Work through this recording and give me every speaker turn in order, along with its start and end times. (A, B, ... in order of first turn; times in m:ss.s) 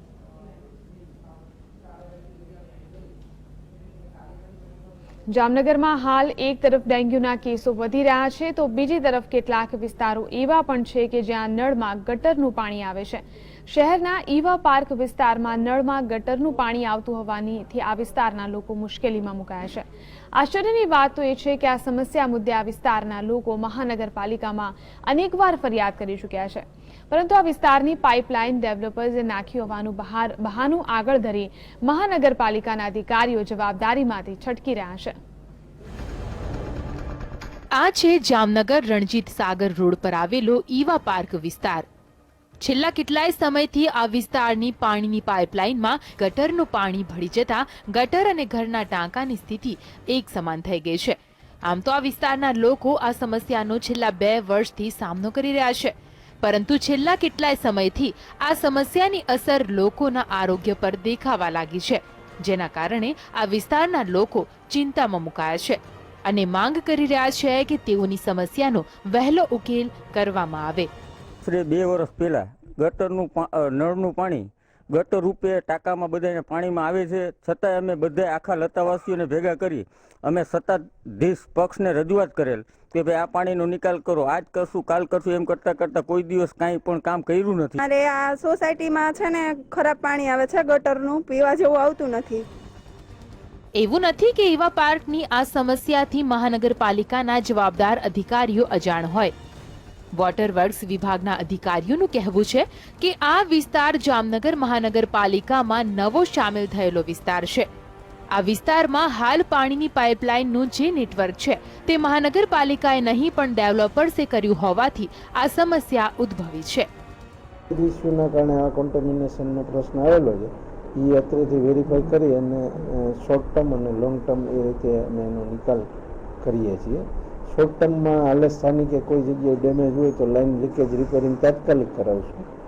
0:05.3-0:35.1 A
0:37.8-0:41.8 B
0:42.6-1:10.9 B
1:11.4-1:27.8 C
1:27.8-1:32.4 D
1:33.8-1:39.3 B
1:40.2-1:47.7 B
1:48.3-1:56.9 B
1:57.7-2:05.8 E
2:06.4-2:12.5 E